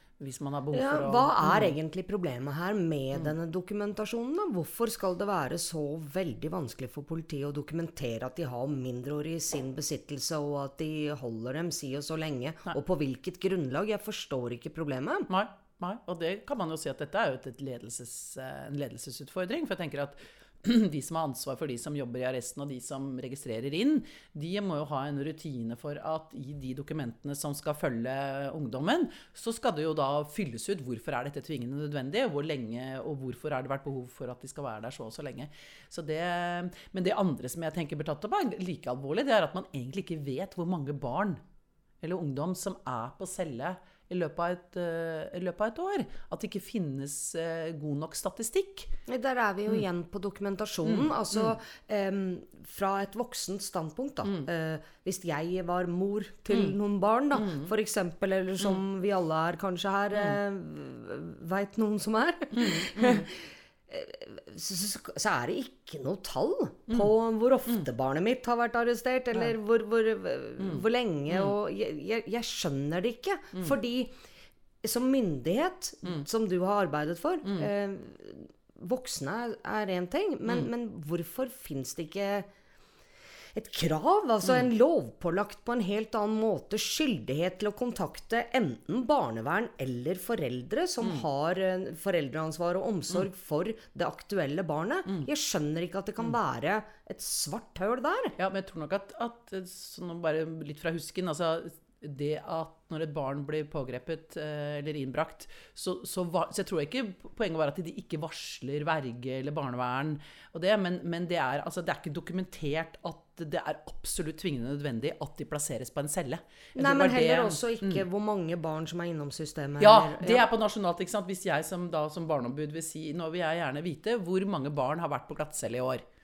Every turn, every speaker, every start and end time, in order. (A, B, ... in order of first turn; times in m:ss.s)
0:00.2-0:01.8 A
0:00.7-0:15.3 B
0:15.3-0:41.4 A
0:42.0-0:48.9 A
0:49.1-1:14.1 B
0:50.8-0:51.6 A
0:54.2-0:54.5 A
0:56.5-0:56.7 A
0:57.3-0:57.7 A
1:00.1-1:00.4 A
1:02.5-1:03.3 A
1:10.6-1:11.5 A
1:14.8-1:22.5 B
1:17.4-1:17.7 A
1:23.5-1:38.3 B
1:24.4-1:24.7 A
1:35.0-1:35.3 A
1:38.4-1:58.0 A
1:56.8-2:00.5 B
1:59.8-2:06.0 A